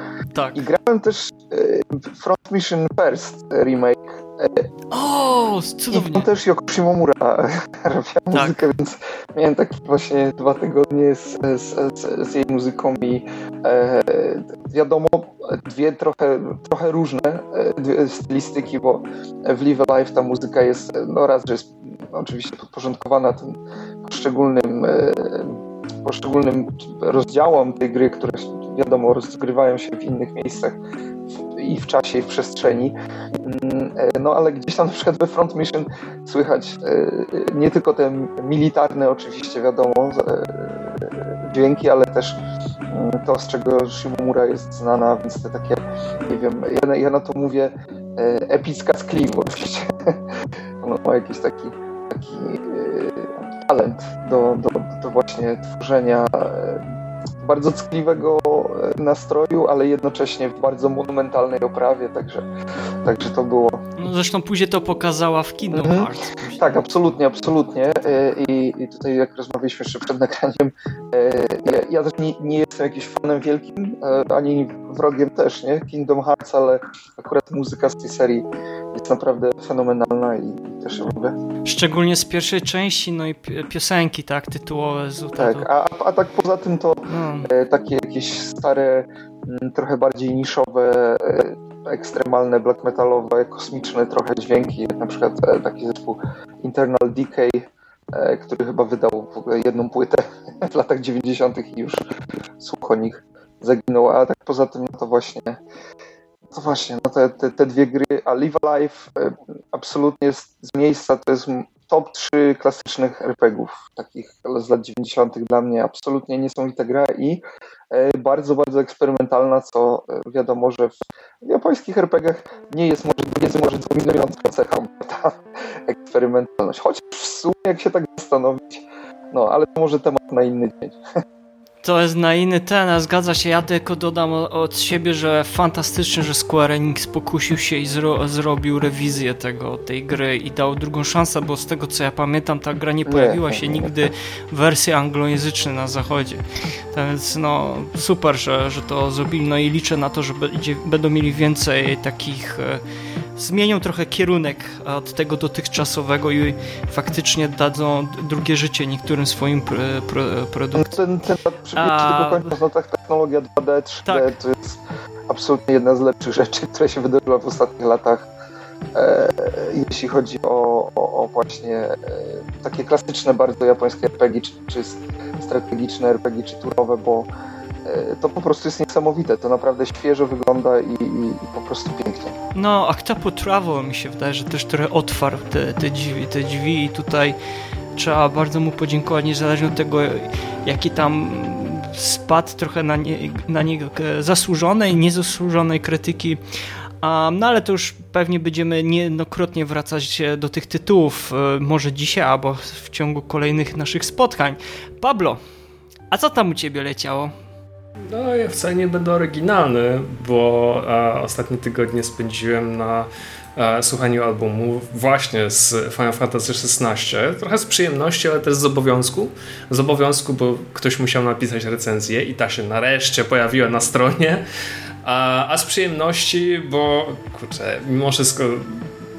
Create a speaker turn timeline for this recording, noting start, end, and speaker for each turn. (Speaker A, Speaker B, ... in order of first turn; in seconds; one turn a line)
Speaker A: 0.3-0.6
Speaker B: 0.6-4.7
Speaker A: 4.9-6.3
Speaker B: 5.9-30.8
Speaker B: 31.6-42.4
Speaker B: 42.9-49.8
Speaker B: 50.8-56.8
Speaker B: 57.4-62.5
Speaker B: 63.0-63.8
Speaker A: 64.0-66.7
Speaker B: 65.7-81.4
Speaker A: 81.7-85.7
Speaker B: 85.4-102.0
Speaker A: 87.1-87.5
Speaker B: 102.6-105.6
Speaker B: 106.5-125.4
Speaker B: 125.9-131.0
Speaker A: 131.8-152.8
Speaker B: 143.1-143.8
Speaker A: 153.4-160.9
Speaker B: 160.8-168.3
Speaker A: 161.8-162.5
Speaker B: 168.9-177.3
Speaker B: 177.9-182.3
Speaker A: 182.6-187.4
Speaker A: 188.0-196.4
Speaker A: 197.0-205.4
Speaker A: 206.1-207.3
Speaker C: 208.1-224.4
Speaker C: 225.0-228.9